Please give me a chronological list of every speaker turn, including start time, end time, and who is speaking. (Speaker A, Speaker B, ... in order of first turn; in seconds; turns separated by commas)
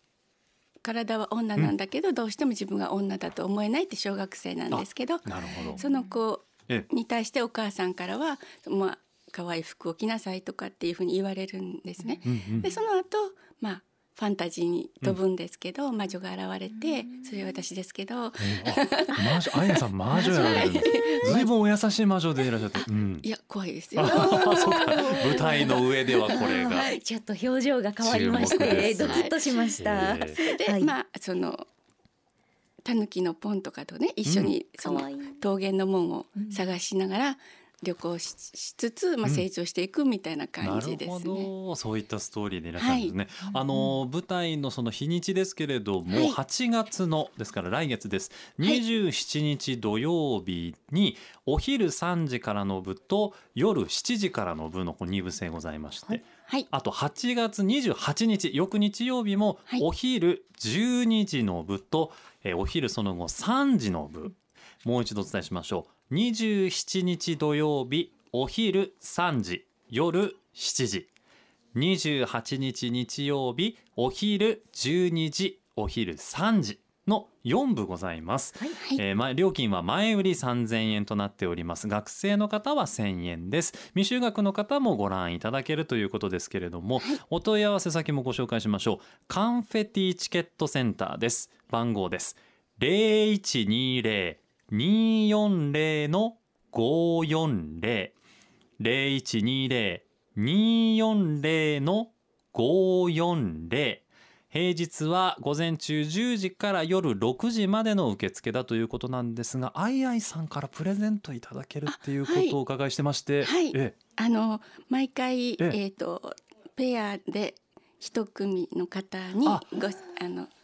Speaker A: 0.8-21.5, Speaker B: 4.7-5.8, Speaker C: 5.8-6.0, Speaker B: 12.2-12.7, Speaker C: 17.0-17.6, Speaker B: 18.4-23.3, Speaker C: 20.2-21.4, Speaker A: 23.2-27.0, Speaker B: 24.0-26.9, Speaker C: 24.1-30.9, Speaker B: 28.0-30.4, Speaker A: 28.4-29.4, Speaker A: 30.3-31.7, Speaker A: 32.9-41.5, Speaker B: 34.2-34.5, Speaker C: 34.8-35.4, Speaker B: 40.6-71.1, Speaker A: 42.8-43.1, Speaker C: 43.5-43.9, Speaker A: 46.1-46.4, Speaker B: 71.7-98.2, Speaker B: 98.8-114.0, Speaker A: 111.9-112.6, Speaker A: 113.4-120.5